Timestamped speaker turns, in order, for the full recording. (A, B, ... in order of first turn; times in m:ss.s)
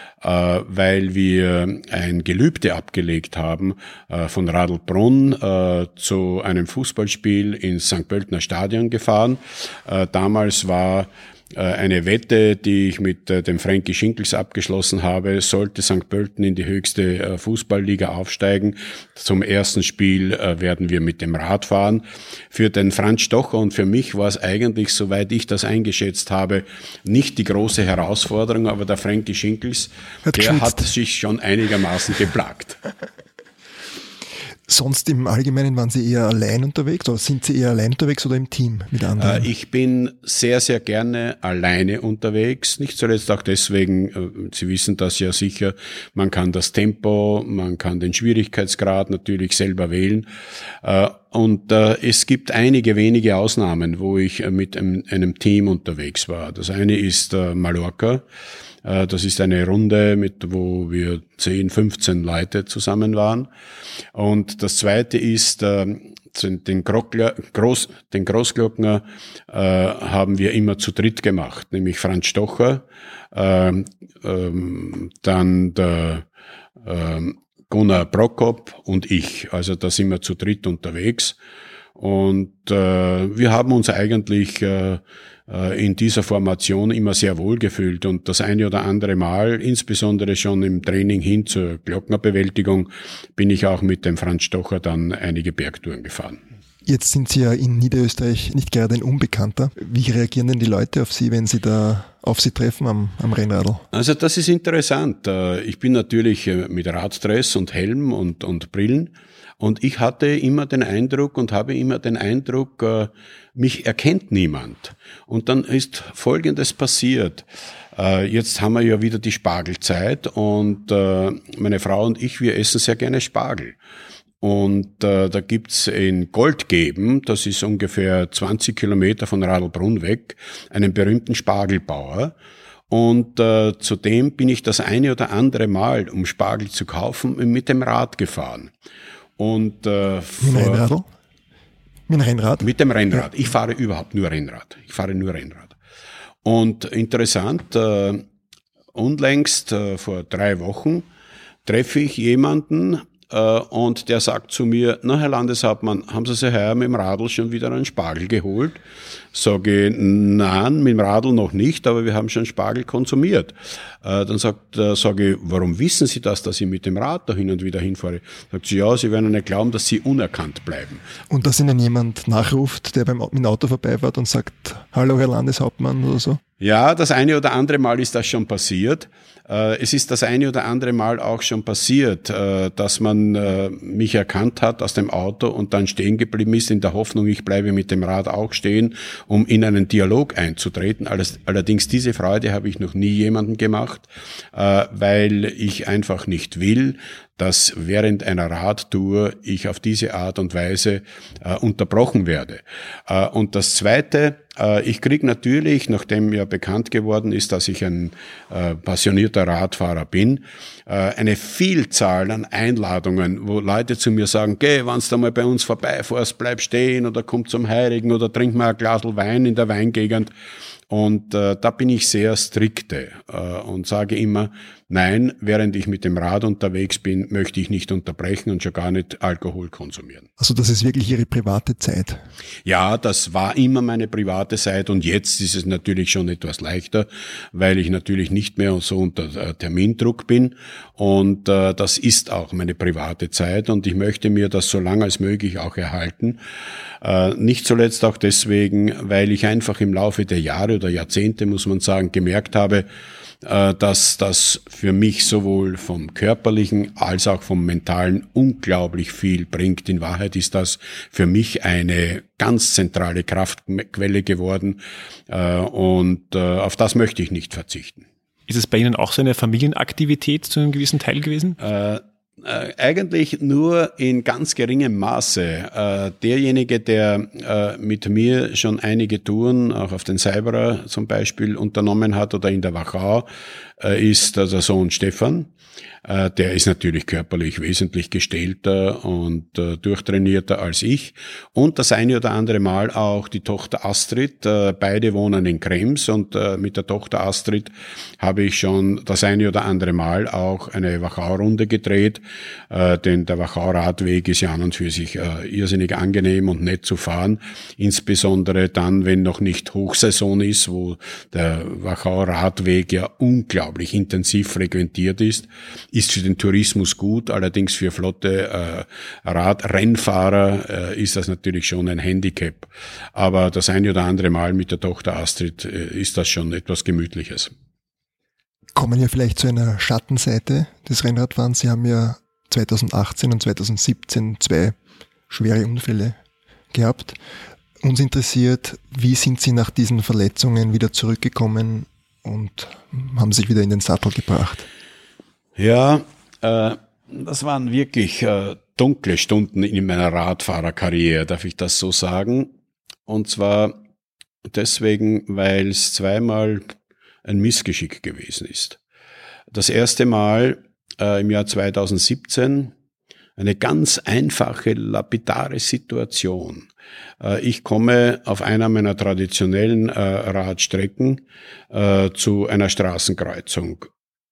0:00.2-0:32.8 A
0:30.2-0:30.9 B
0:34.7-0:39.4 B
0:39.2-0:50.3 A
0:50.8-0:58.2 A
0:58.8-1:03.5 A
1:04.1-1:16.2 A
1:16.8-1:21.4 A
1:22.0-1:36.4 A
1:36.8-1:43.8 B
1:43.9-1:57.4 A
1:58.0-2:03.8 A
2:04.4-2:12.3 A
2:12.9-2:18.7 A
2:19.4-2:20.8 A
2:20.4-2:21.1 B
2:22.1-2:23.2 B
2:22.6-2:25.8 A
2:26.4-2:28.2 A
2:28.9-2:31.1 A
2:31.6-2:38.8 A
2:39.3-2:51.0 A
2:51.3-2:56.4 B
2:56.6-3:40.3 A
3:40.9-3:50.3 A
3:50.4-3:52.2 B
3:52.6-4:06.4 A
4:07.0-4:12.8 A
4:13.4-4:28.0 A
4:28.5-4:31.6 C
4:31.6-4:43.3 A
4:43.8-4:45.5 A
4:46.0-5:27.5 A
5:28.7-5:34.8 B
5:35.3-5:36.2 B
5:36.7-5:37.2 B
5:37.8-5:44.7 B
5:45.6-5:52.5 A
5:53.1-5:53.8 A
5:54.5-5:56.6 A
5:57.2-5:58.8 A
5:59.5-6:02.7 A
6:03.4-6:06.7 A
6:07.2-6:13.9 A